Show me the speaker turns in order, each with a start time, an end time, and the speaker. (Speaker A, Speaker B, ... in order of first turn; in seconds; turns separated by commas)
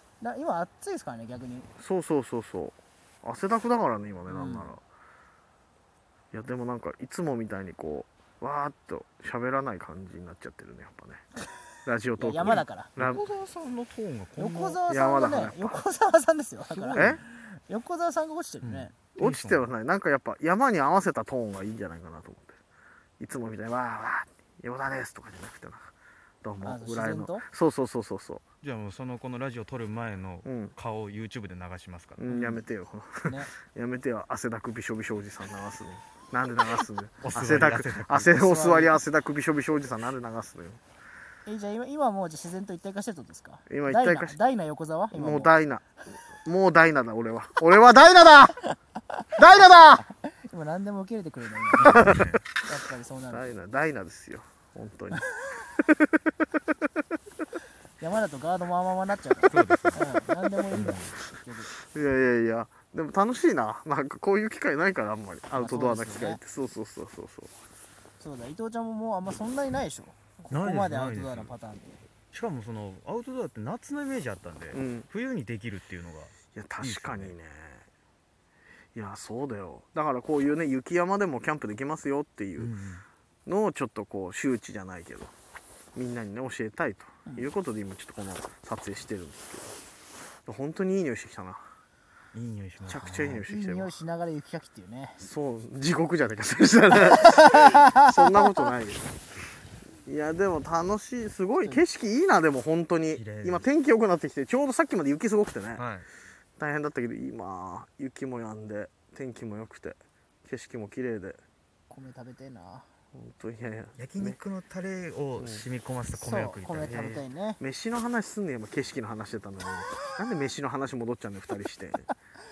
Speaker A: 0.2-1.7, Speaker B: 1.8-4.8, Speaker A: 4.3-4.7, Speaker B: 6.3-11.2, Speaker B: 11.9-13.3, Speaker A: 12.2-12.9, Speaker C: 12.4-14.8, Speaker A: 14.4-18.9, Speaker B: 14.9-15.8, Speaker C: 16.7-17.2, Speaker B: 16.9-17.2, Speaker C: 18.6-19.7, Speaker B: 19.1-22.6, Speaker B: 23.2-25.9, Speaker B: 26.4-28.4, Speaker A: 26.6-27.5, Speaker C: 28.6-32.6, Speaker B: 30.4-30.8, Speaker B: 32.2-40.8, Speaker A: 33.2-33.5, Speaker C: 37.2-38.5, Speaker A: 38.3-39.0, Speaker A: 41.5-45.6, Speaker B: 43.7-44.4, Speaker B: 45.1-45.9, Speaker B: 46.4-48.5, Speaker B: 49.4-50.0, Speaker A: 50.1-53.5, Speaker C: 51.8-52.4, Speaker B: 51.8-52.4, Speaker B: 53.3-55.3, Speaker B: 55.8-56.4, Speaker A: 58.0-61.7, Speaker C: 59.5-60.0, Speaker C: 60.7-61.2, Speaker B: 61.8-67.5, Speaker A: 65.6-66.4, Speaker A: 68.2-72.1, Speaker C: 70.5-71.5, Speaker C: 72.3-77.3, Speaker B: 74.7-75.1, Speaker B: 76.5-77.9, Speaker B: 79.0-82.7, Speaker C: 82.6-83.0, Speaker B: 83.5-85.3, Speaker B: 86.0-89.8, Speaker B: 90.5-91.7, Speaker C: 92.3-93.4, Speaker B: 92.8-94.0, Speaker A: 93.5-95.3, Speaker B: 95.2-99.1, Speaker A: 97.3-98.7, Speaker B: 100.1-105.9, Speaker C: 103.2-103.7, Speaker C: 105.8-106.1, Speaker B: 106.6-111.4, Speaker A: 111.9-112.9, Speaker B: 113.1-114.4, Speaker C: 114.0-117.0, Speaker B: 115.4-115.7, Speaker A: 116.1-117.6, Speaker B: 116.8-122.1